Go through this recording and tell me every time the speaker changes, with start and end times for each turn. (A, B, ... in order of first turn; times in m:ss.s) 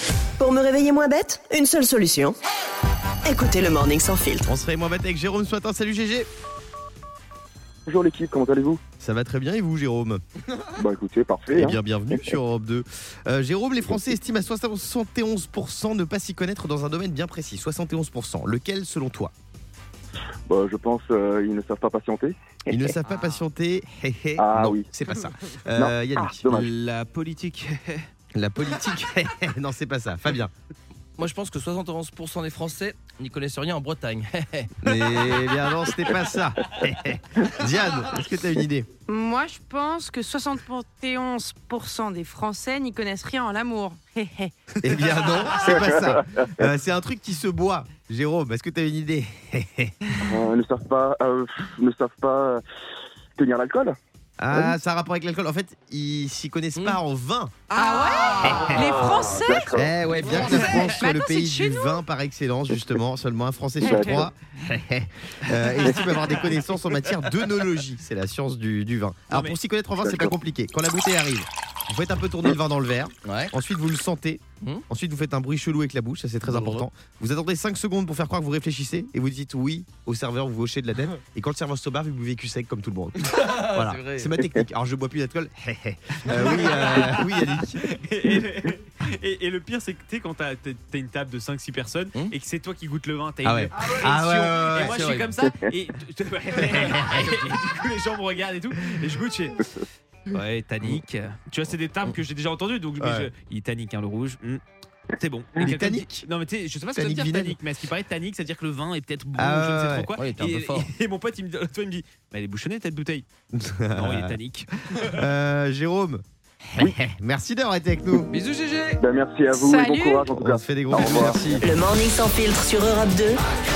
0:00.4-0:02.4 A
0:03.2-0:04.5 A
0:04.5-0:06.3 B
0:07.9-0:08.8 C
0:09.0-0:10.2 B
0:10.8-0:11.8 C
0:11.5-0:19.3 B
0:20.5-0:22.3 C
0:22.7-0:26.5 B
0:24.4-0:24.9 C
0:25.8-0:26.7 C
0:26.5-0:28.1 D
0:28.4-0:30.5 B
0:31.2-0:35.4 E
0:34.8-0:38.9 B
0:39.1-0:44.5 F
0:44.8-0:49.9 B
0:45.8-0:46.0 C
0:50.3-0:52.6 C
0:53.4-0:54.0 C
0:54.4-0:57.6 B
0:57.7-0:59.7 F
0:57.8-0:58.6 D
0:58.4-0:59.0 B
0:58.6-1:00.4 C
0:59.7-1:27.8 B
1:00.2-1:01.0 D
1:00.4-1:02.0 F
1:03.8-1:04.3 C
1:03.8-1:04.1 F
1:05.8-1:06.6 D
1:09.3-1:09.6 D
1:10.0-1:10.3 C
1:13.3-1:13.5 E
1:16.5-1:16.9 E
1:23.2-1:24.4 E
1:26.3-1:39.7 D
1:33.4-1:35.1 B
1:34.9-1:35.3 E
1:36.6-1:37.5 B
1:40.3-1:44.6 D
1:43.0-1:43.3 B
1:45.1-1:53.3 D
1:45.6-1:46.3 B
1:47.0-1:47.6 B
1:49.4-1:50.1 B
1:50.2-1:50.9 E
1:53.5-1:54.4 B
1:54.0-1:55.2 D
1:55.1-1:56.2 B
1:56.7-1:58.3 B
1:58.3-1:59.0 E
1:59.0-2:01.5 C
1:59.5-2:00.2 F
2:00.3-2:01.7 B
2:01.6-2:03.4 A